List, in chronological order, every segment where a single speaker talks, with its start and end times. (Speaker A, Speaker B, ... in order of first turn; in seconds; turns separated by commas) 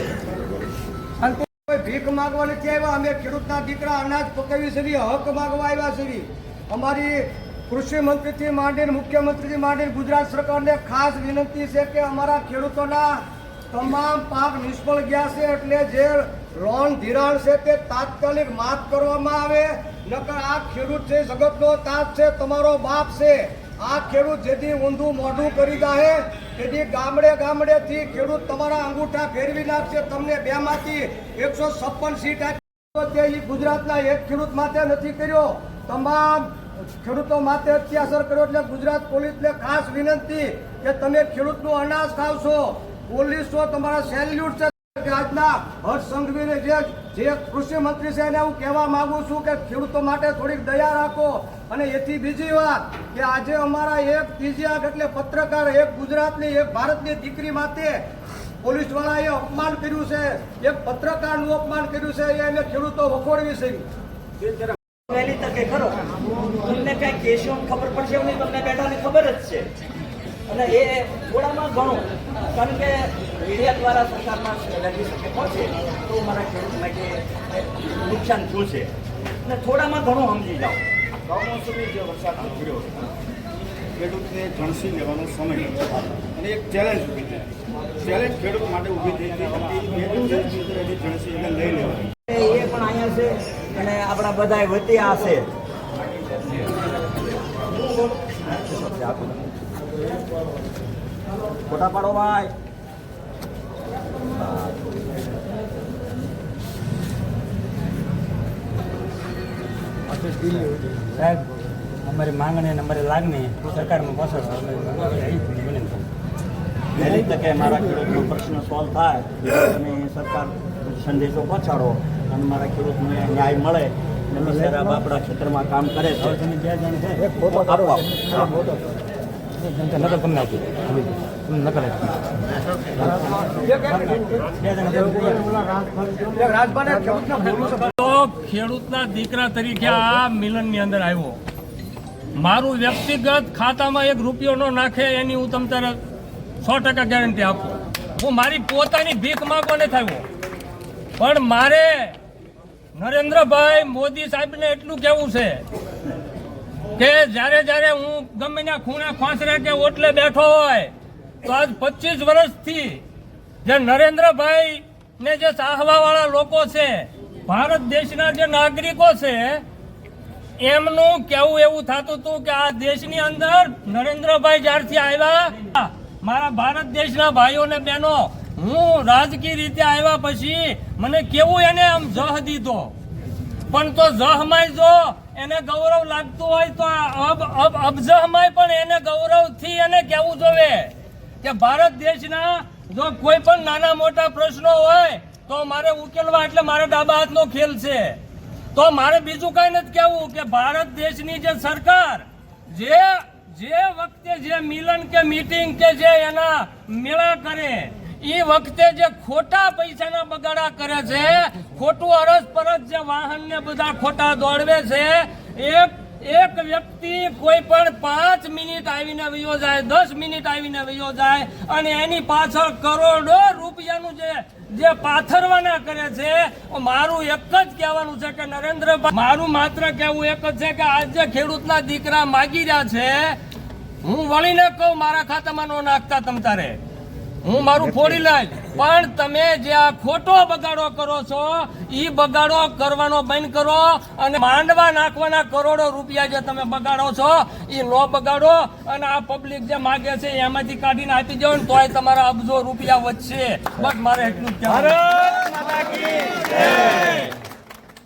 Speaker A: 1.2-58.0, Speaker A: 58.6-63.8, Speaker B: 65.1-69.7, Speaker B: 70.5-78.9, Speaker B: 79.4-80.8, Speaker C: 81.8-82.7, Speaker C: 84.2-85.8, Speaker C: 86.5-87.3, Speaker C: 88.1-92.0, Speaker B: 92.3-95.5, Speaker B: 98.6-99.3, Speaker B: 101.7-102.5, Speaker B: 104.4-104.7, Speaker D: 111.2-111.5, Speaker D: 112.0-116.0, Speaker B: 116.9-126.4, Speaker D: 126.7-127.1, Speaker B: 127.4-128.5, Speaker D: 129.9-131.1, Speaker A: 133.6-134.1, Speaker D: 134.6-135.4, Speaker A: 135.2-137.8, Speaker E: 137.8-141.4, Speaker E: 142.4-146.0, Speaker E: 146.6-150.2, Speaker E: 151.2-152.2, Speaker E: 152.9-155.6, Speaker E: 157.0-160.9, Speaker E: 161.4-163.0, Speaker E: 163.6-169.6, Speaker E: 170.6-182.9, Speaker E: 183.7-198.2, Speaker E: 198.7-233.4, Speaker E: 234.0-236.8, Speaker E: 237.4-255.0, Speaker B: 254.7-257.3